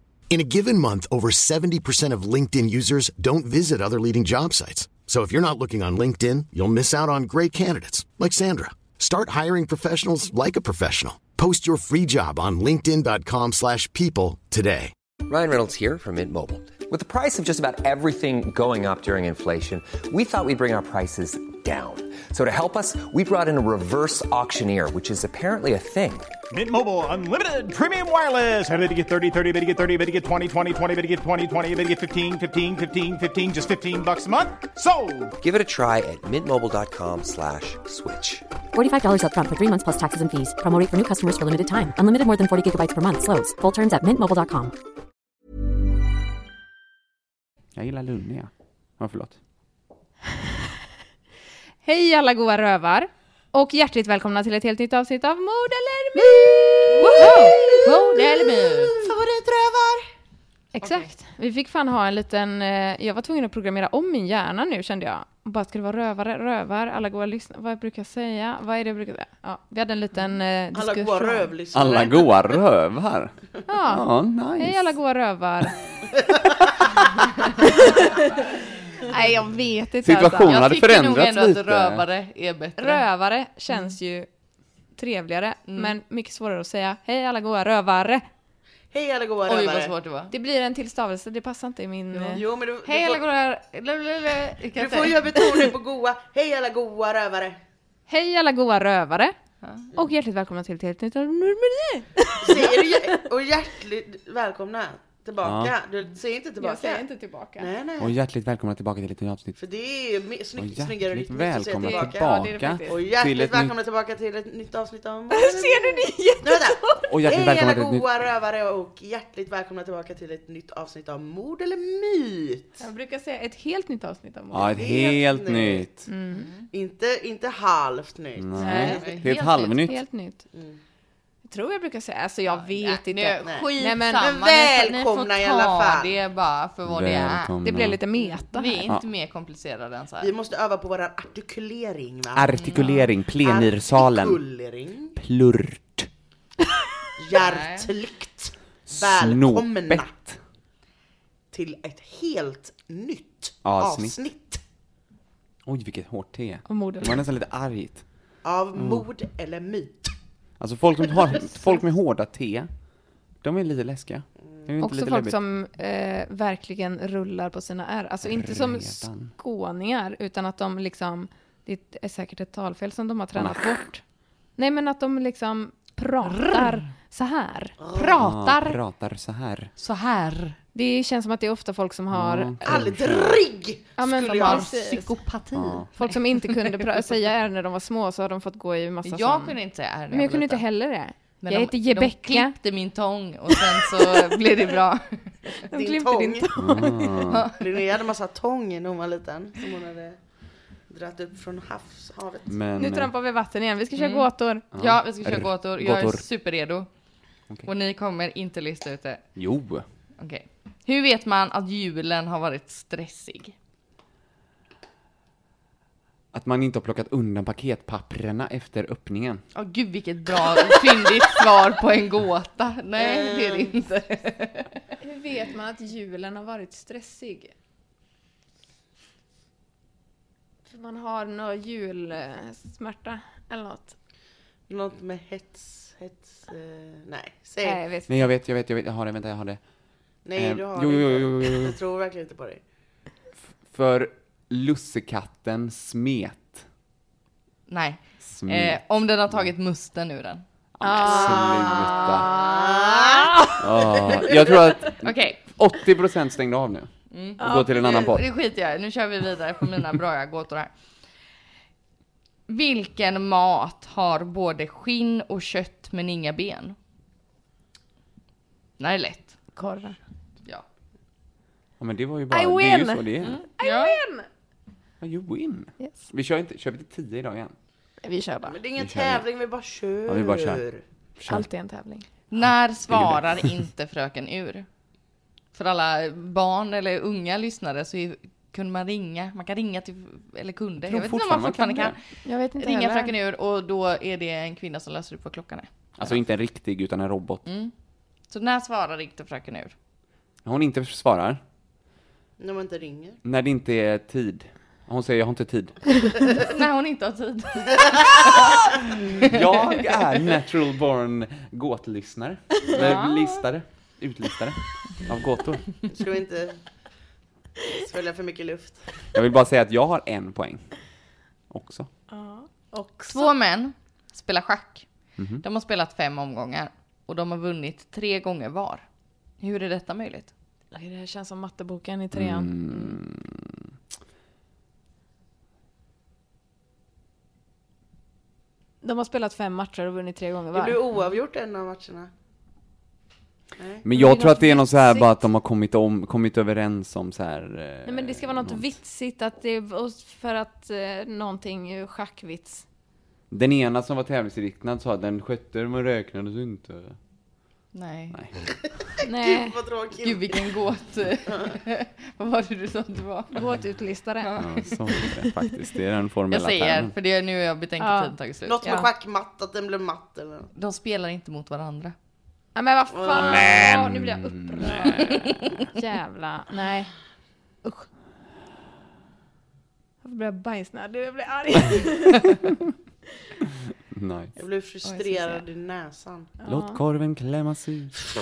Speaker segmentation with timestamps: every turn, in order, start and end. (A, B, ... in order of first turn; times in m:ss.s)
0:00.3-0:14.9 A
0:15.3-0:26.3 B
0:26.5-0:35.4 C
0:35.4-0:38.4 B
0:38.7-0:44.7 D
0:47.8-0:49.4 E
0:51.8-0:57.6 F
0:56.9-1:00.0 G
0:56.9-0:58.9 H
1:00.8-1:11.5 F
1:00.8-1:01.1 H
1:10.7-1:12.6 G
1:11.7-1:13.3 E
1:13.7-1:15.8 F
1:13.9-1:14.9 E
1:17.0-1:18.4 F
1:19.0-1:20.6 F
1:20.0-1:22.0 E
1:20.4-1:23.0 H
1:22.8-1:24.3 F
1:25.0-1:28.2 F
1:25.7-1:25.9 H
1:28.9-1:29.9 G
1:29.5-1:30.3 H
1:30.3-1:32.4 F
1:32.1-1:35.2 H
1:32.3-1:33.2 G
1:34.8-1:37.6 G
1:38.1-1:39.3 F
1:39.6-1:39.9 H
1:39.9-1:42.7 F
1:42.4-1:48.1 G
1:45.4-1:45.8 E
1:46.6-1:47.7 F
1:48.0-1:49.6 E
1:49.6-2:02.8 G
1:50.6-1:53.7 E
1:51.8-1:53.0 F
1:55.3-1:57.0 F
1:57.1-1:58.0 E
2:02.8-2:05.0 F
2:04.5-2:06.1 E
2:04.8-2:05.9 G
2:06.1-2:06.5 F
2:06.4-2:06.6 H
2:06.7-2:09.2 G
2:08.4-2:10.0 E
2:08.6-2:09.0 F
2:08.8-2:09.8 H
2:09.8-2:10.4 F
2:10.5-2:10.8 G
2:11.5-2:14.2 F
2:12.5-2:17.5 H
2:13.4-2:16.1 G
2:16.9-2:18.0 E
2:17.6-2:18.9 F
2:18.5-2:20.3 H
2:20.2-2:25.2 G
2:22.3-2:24.4 E
2:22.6-2:23.0 H
2:25.2-2:26.1 E
2:27.2-2:30.1 G
2:27.4-2:27.9 H
2:28.9-2:30.4 E
2:31.5-2:34.6 G
2:33.6-2:34.2 E
2:35.6-2:38.0 E
2:36.7-2:37.2 F
2:38.4-2:40.1 G
2:38.8-2:39.1 E
2:40.6-2:42.7 E
2:41.1-2:41.4 G
2:43.4-2:45.4 E
2:44.8-2:54.0 F
2:48.2-2:49.3 E
2:53.3-2:53.7 E
2:54.6-2:58.8 F
2:56.3-2:56.8 H
2:57.8-2:58.2 G
2:58.1-2:59.7 E
2:59.8-3:00.6 H
3:00.7-3:02.6 F
3:02.1-3:03.4 E
3:02.6-3:04.7 G
3:04.0-3:05.1 F
3:04.3-3:07.0 H
3:05.5-3:05.9 E
3:06.0-3:09.6 F
3:09.0-3:10.6 H
3:10.1-3:12.6 F
3:11.4-3:15.4 H
3:15.7-3:17.3 F
3:15.7-3:16.5 G
3:16.6-3:17.5 E
3:17.3-3:17.6 H
3:17.6-3:20.2 G
3:20.9-3:22.6 G
3:22.5-3:23.1 E
3:22.8-3:24.6 F
3:24.0-3:26.9 H
3:24.7-3:26.2 E
3:27.6-3:29.2 H
3:29.4-3:29.8 E
3:30.2-3:33.6 H
3:36.3-3:39.4 E
3:39.6-3:44.8 H
3:43.0-3:43.7 G
3:45.0-3:47.5 F
3:50.7-3:54.0 F
3:54.7-3:57.8 G
3:57.6-3:58.2 F
3:58.1-3:59.6 E
4:00.2-4:02.6 G
4:00.4-4:01.8 E
4:03.7-4:06.7 E
4:07.7-4:10.4 H
4:08.2-4:08.8 E
4:10.8-4:12.3 E
4:10.8-4:11.6 F
4:11.1-4:14.3 G
4:12.8-4:13.6 F
4:13.6-4:18.2 E
4:15.0-4:15.5 H
4:17.1-4:20.7 H
4:17.4-4:17.6 F
4:22.5-4:26.8 H
4:28.8-4:29.4 H
4:29.5-4:30.0 F
4:31.8-4:33.4 E
4:32.3-4:34.3 F
4:33.2-4:34.0 H
4:35.0-4:37.5 E
4:35.8-4:36.1 F
4:38.0-4:38.6 F
4:38.4-4:40.8 G
4:38.8-4:39.3 E
4:40.1-4:40.6 E
4:41.2-4:41.5 E
4:41.3-4:42.0 F
4:42.3-4:44.6 H
4:42.4-4:43.5 E
4:45.5-4:56.2 H
4:50.9-4:52.0 E
4:52.2-4:53.1 F
4:56.0-4:57.4 E
4:57.4-4:57.7 H
4:58.3-4:59.8 H
5:00.4-5:01.4 E
5:02.4-5:03.2 G
5:03.2-5:06.1 E
5:06.4-5:08.4 H
5:08.4-5:15.8 E
5:12.7-5:13.4 H
5:15.9-5:16.6 G
5:17.8-5:19.0 G
5:19.1-5:20.7 E
5:21.5-5:21.9 E
5:22.1-5:23.3 F
5:23.1-5:24.9 H
5:25.2-5:25.4 E
5:25.4-5:28.8 H
5:29.4-5:30.3 H
5:30.7-5:33.0 F
5:32.1-5:33.6 E
5:38.8-5:40.8 F
5:40.5-5:42.1 G
5:43.6-5:43.8 G
5:43.8-5:48.7 E
5:43.9-5:45.2 F
5:47.8-5:52.6 F
5:53.3-5:57.0 E
5:57.7-5:58.2 H
5:59.0-5:59.6 F
5:59.1-6:00.5 G
6:00.0-6:03.4 H
6:03.3-6:04.3 F
6:04.2-6:04.8 H
6:04.4-6:06.9 E
6:04.9-6:05.3 F
6:06.3-6:08.6 H
6:07.8-6:08.9 F
6:08.4-6:10.5 G
6:10.5-6:11.9 H
6:12.5-6:16.9 F
6:13.0-6:13.5 G
6:13.1-6:15.3 E
6:17.6-6:17.9 F
6:20.0-6:22.4 F
6:23.9-6:24.3 E
6:24.4-6:26.4 G
6:24.8-6:25.4 H
6:26.4-6:26.8 F
6:26.4-6:27.9 E